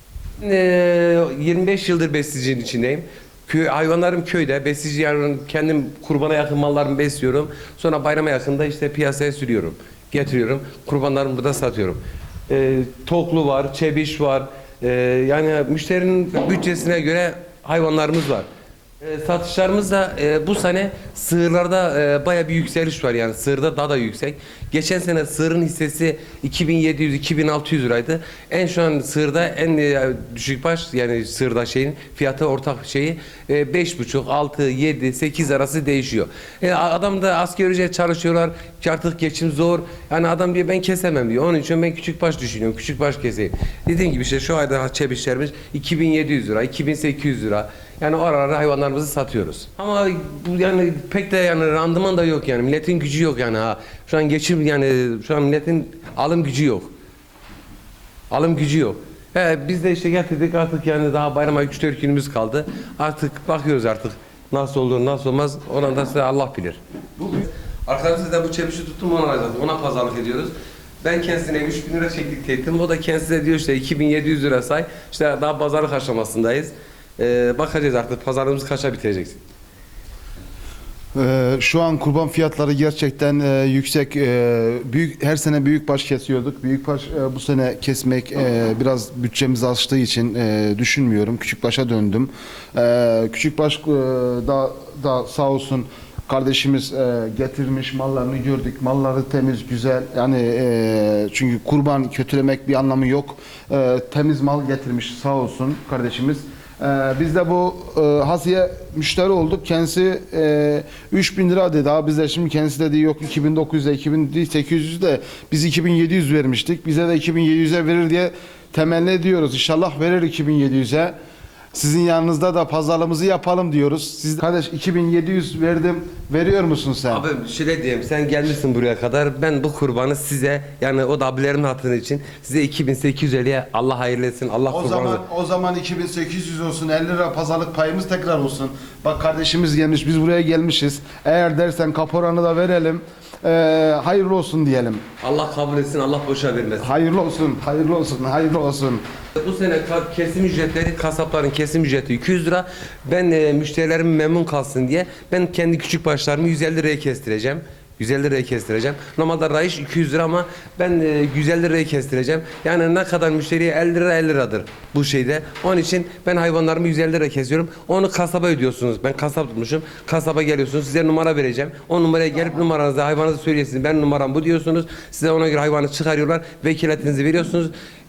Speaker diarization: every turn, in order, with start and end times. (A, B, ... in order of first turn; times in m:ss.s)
0:00.4-0:18.5 A
0:19.0-0:56.9 A
0:58.3-1:19.4 A
1:21.2-2:01.2 B
2:01.7-2:07.2 B
2:07.1-2:15.2 A
2:14.7-2:25.0 B
2:25.2-2:26.9 A
2:26.8-2:29.0 B
2:29.4-2:57.7 A